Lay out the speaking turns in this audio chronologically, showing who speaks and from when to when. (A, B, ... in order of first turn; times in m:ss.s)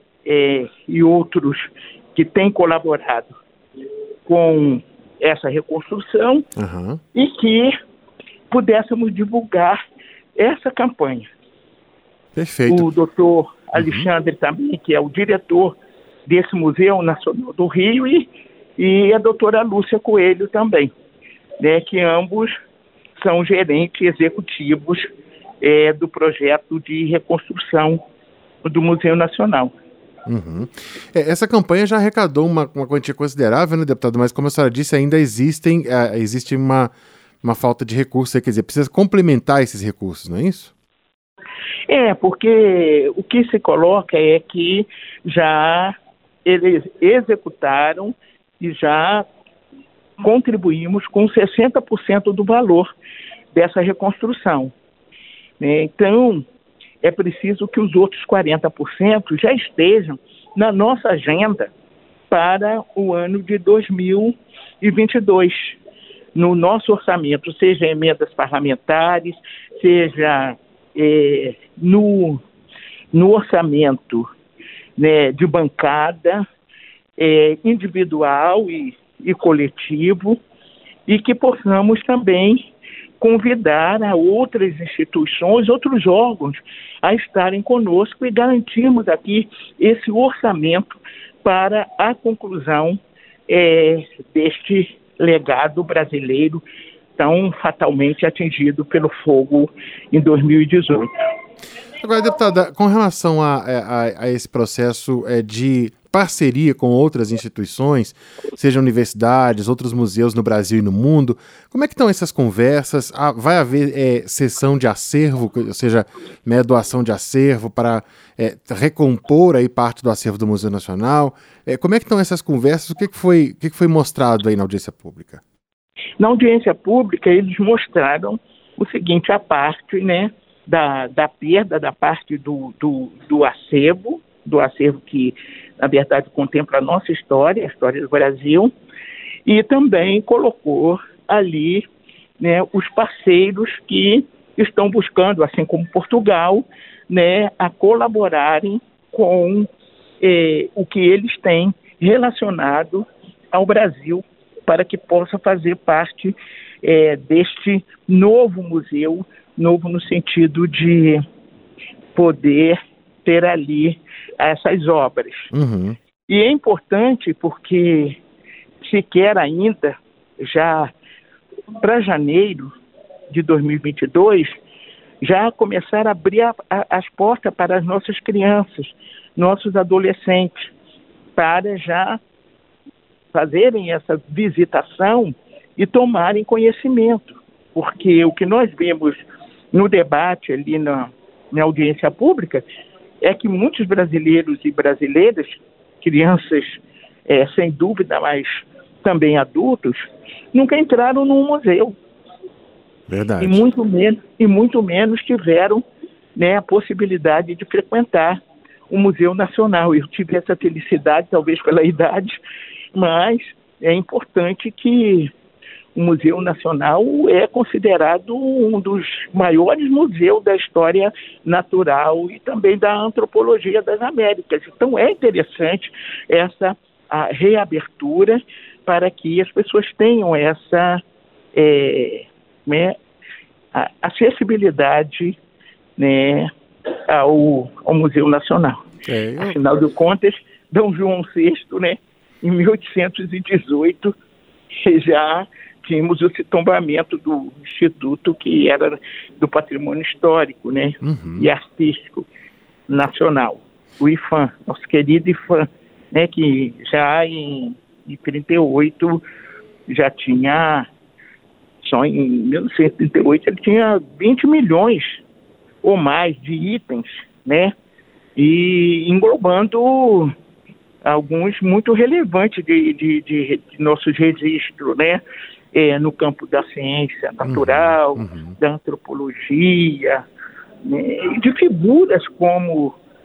0:00.2-0:03.3 A
0:04.3-0:06.5 A
0:06.6-0:07.0 B
0:07.1-0:07.7 A
0:08.5-0:09.8 A
0:10.4-0:11.3 A
0:12.4-0:12.9 B
0:12.7-0:15.8 A
0:13.8-0:14.1 B
0:16.3-0:20.9 A
0:21.6-0:22.5 A
0:23.2-0:25.1 A
0:25.6-0:28.0 A
0:28.6-0:29.7 A
0:30.3-0:36.9 B
0:37.4-0:40.7 B
0:41.9-0:49.2 A
0:50.2-0:52.9 A
0:53.5-0:54.7 A
0:55.6-0:56.4 A
0:57.0-1:01.7 A
1:02.3-1:05.8 A
1:06.4-1:12.4 A
1:13.1-1:14.3 A
1:15.0-1:16.4 A
1:17.2-1:20.4 A
1:21.1-1:22.7 A
1:23.2-1:33.0 A
1:33.5-1:36.6 A
1:37.2-1:41.1 A
1:42.0-2:05.4 B
2:06.2-2:18.7 A
2:19.5-2:21.9 A
2:22.4-2:29.7 A
2:30.2-2:41.2 A
2:42.2-2:45.5 A
2:45.5-2:46.0 B
2:46.3-2:48.2 A
2:48.8-2:50.9 A
2:51.8-2:52.7 A
2:53.3-2:54.5 A
2:55.2-3:00.6 A
3:01.4-3:02.2 A
3:03.3-3:12.6 A
3:13.2-3:22.0 A
3:23.1-3:23.7 B
3:23.4-3:25.8 A
3:26.4-3:32.4 A
3:32.9-3:35.3 A
3:36.0-3:51.0 A
3:51.5-3:53.0 A
3:53.7-3:55.4 A
3:56.0-3:56.5 A
3:57.1-3:58.8 A
3:59.1-3:59.6 B
3:59.4-4:04.2 A
4:04.8-4:12.3 A
4:11.0-4:11.5 B
4:12.9-4:19.2 A
4:19.9-4:20.9 A
4:21.8-4:25.2 A
4:25.8-4:27.7 A
4:28.4-4:30.3 A
4:31.0-4:35.2 A
4:35.7-4:40.2 A
4:37.4-4:38.6 B
4:40.8-4:43.0 A